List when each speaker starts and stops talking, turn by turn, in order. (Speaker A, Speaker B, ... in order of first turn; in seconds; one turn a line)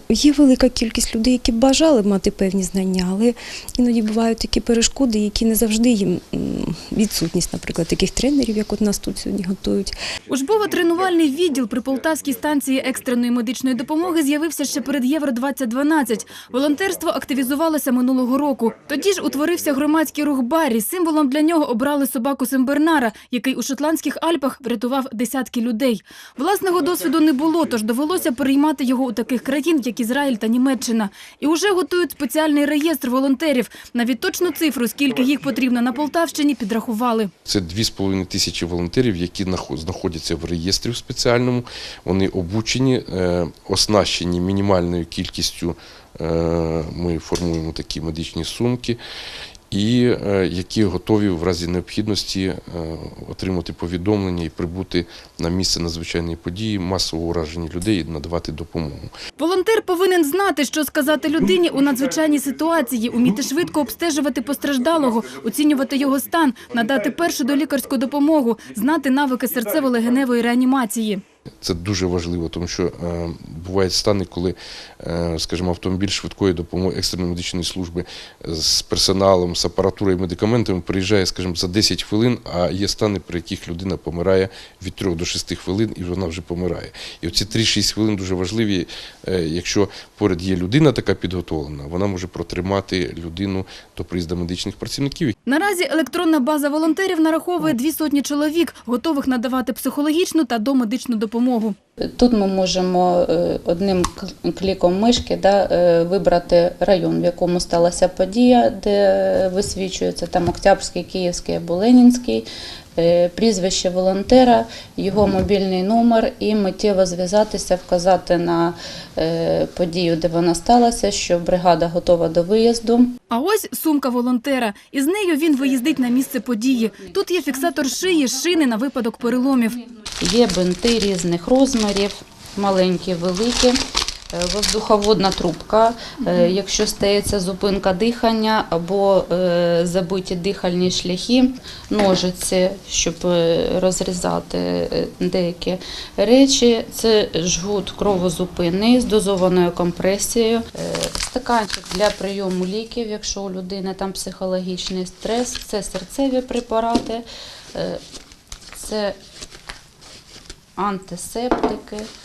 Speaker A: 0.1-10.0
Speaker B: 10.3-37.3
Speaker C: 37.5-49.0
Speaker C: 49.7-59.1
Speaker B: 59.4-71.2
Speaker C: 71.6-95.3
Speaker B: 95.5-101.8
Speaker D: 102.2-112.5
Speaker D: 113.0-123.1
Speaker B: 123.3-129.8
Speaker D: 130.2-133.8
Speaker D: 134.3-158.0
Speaker D: 158.7-159.1
Speaker D: 160.8-162.1